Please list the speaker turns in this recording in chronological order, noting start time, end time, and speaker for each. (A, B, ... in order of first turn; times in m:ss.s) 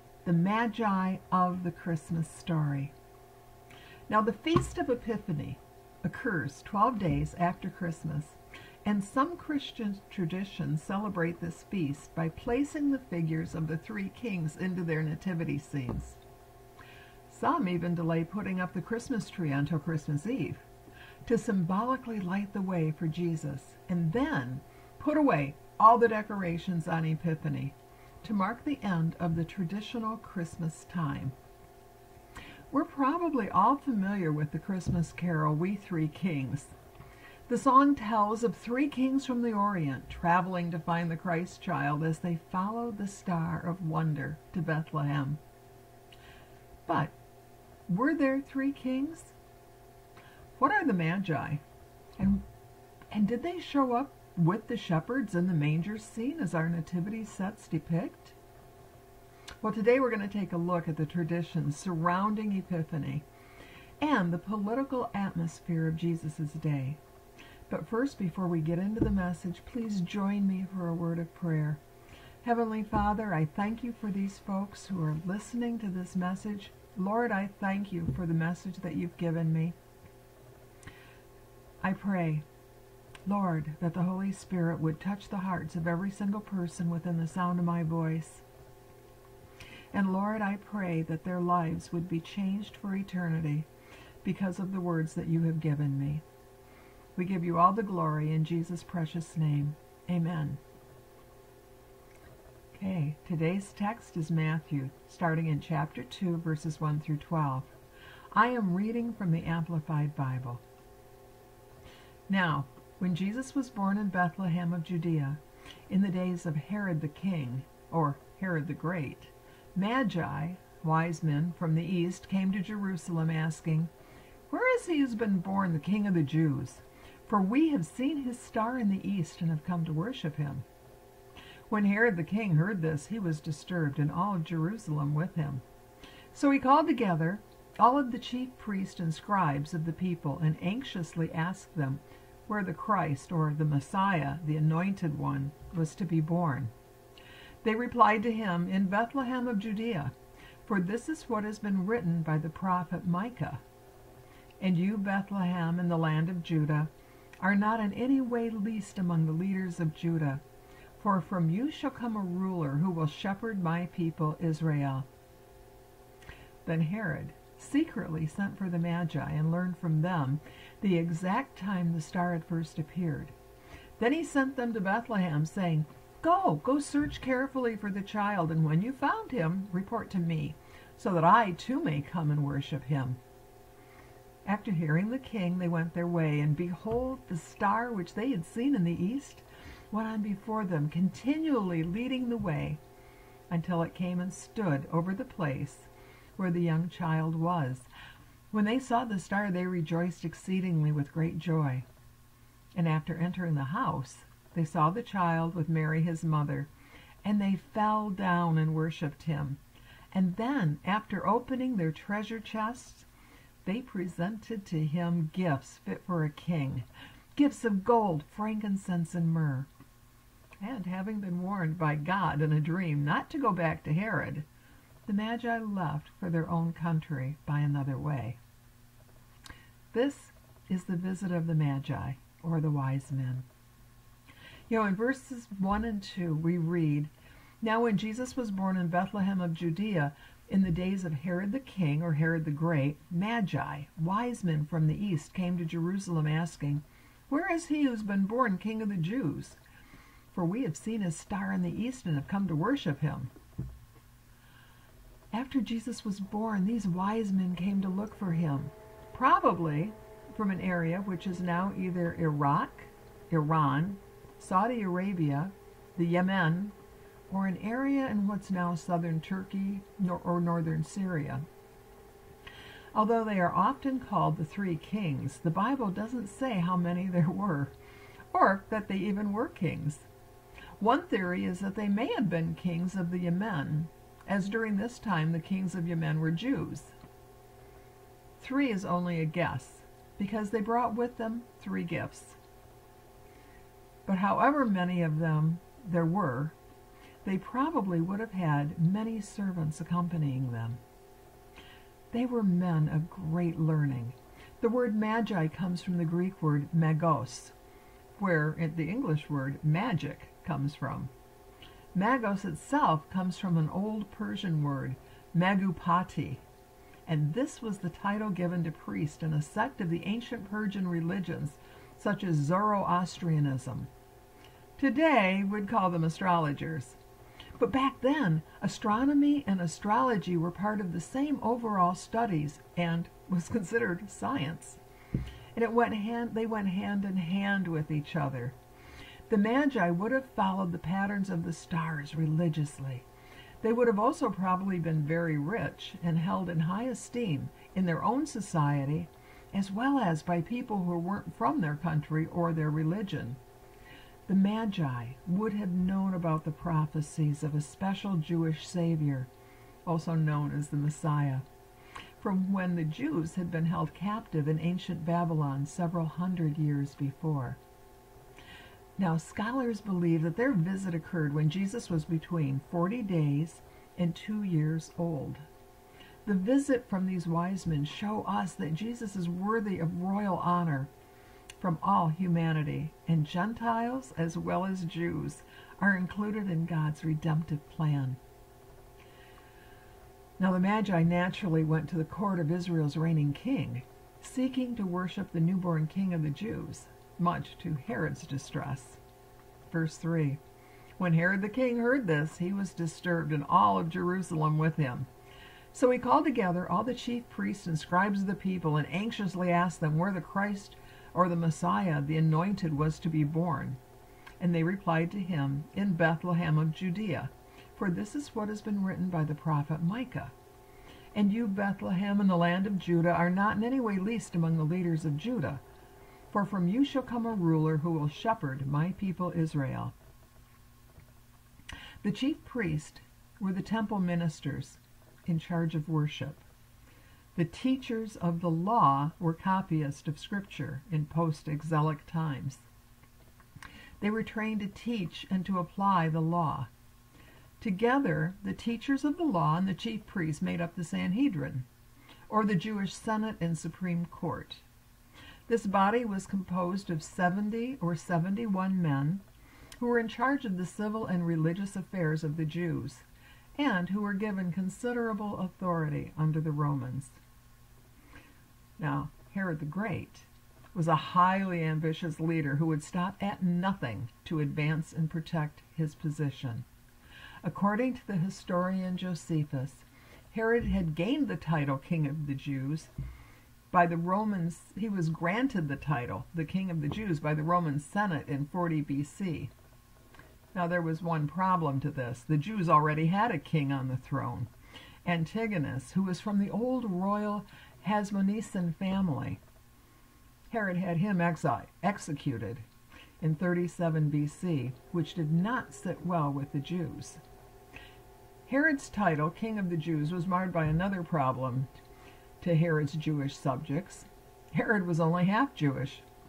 0:00.2-0:02.9 A
0:04.1-0:16.2 A
0:17.3-0:20.6 A
0:21.3-0:31.4 A
0:32.7-0:36.7 A
0:37.5-0:45.4 A
0:46.9-0:47.2 A
0:47.9-0:49.4 A
0:50.6-0:51.6 A
0:52.2-0:52.4 A
0:53.1-0:58.4 A
0:59.6-1:03.3 A
1:04.0-1:07.0 A
1:07.7-1:11.8 A
1:12.4-1:19.8 A
1:21.8-1:22.4 A
1:23.3-1:28.4 A
1:29.9-1:33.7 A
1:34.2-1:36.2 A
1:37.2-1:40.6 A
1:42.7-1:47.7 A
1:48.3-1:50.6 A
1:52.3-2:03.9 A
2:04.5-2:10.7 A
2:11.7-2:15.6 A
2:16.3-2:26.7 A
2:27.6-2:30.1 A
2:30.7-2:33.6 A
2:34.6-2:40.4 A
2:41.0-2:45.1 A
2:46.6-2:53.3 A
2:54.0-3:03.2 A
3:04.4-3:12.8 A
3:13.5-3:17.9 A
3:18.5-3:21.9 A
3:22.8-3:26.7 A
3:27.2-3:29.6 A
3:30.1-3:33.1 A
3:33.6-3:39.7 A
3:40.6-3:44.5 A
3:45.1-3:48.4 A
3:49.9-3:53.5 A
3:54.7-4:09.6 A
4:10.3-4:13.3 A
4:15.3-4:26.8 A
4:27.3-4:31.4 A
4:32.9-4:37.7 A
4:38.3-4:40.1 A
4:40.8-4:46.9 A
4:48.4-4:52.4 A
4:54.1-4:56.6 A
4:57.2-5:00.8 A
5:02.1-5:07.5 A
5:08.2-5:11.1 A
5:11.9-5:16.4 A
5:17.1-5:23.9 A
5:24.8-5:27.0 A
5:27.6-5:34.8 A
5:35.6-5:38.6 A
5:39.3-5:43.1 A
5:43.6-5:53.4 A
5:54.3-5:59.3 A
5:59.8-6:01.4 A
6:02.2-6:07.6 A
6:09.0-6:15.4 A
6:16.2-6:20.9 A
6:21.6-6:28.2 A
6:30.4-6:39.0 A
6:39.7-6:40.4 A
6:41.0-6:45.1 A
6:45.7-6:53.8 A
6:54.4-7:00.3 A
7:01.1-7:05.6 A
7:06.3-7:09.9 A
7:12.0-7:16.4 A
7:17.4-7:22.6 A
7:24.0-7:26.7 A
7:27.6-7:31.7 A
7:32.3-7:34.6 A
7:35.5-7:39.2 A
7:39.8-7:43.0 A
7:43.6-7:47.2 A
7:48.8-7:56.7 A
7:57.4-8:02.9 A
8:03.7-8:09.5 A
8:10.5-8:14.5 A
8:15.0-8:19.4 A
8:20.5-8:22.6 A
8:23.2-8:27.2 A
8:28.5-8:31.7 A
8:32.4-8:36.0 A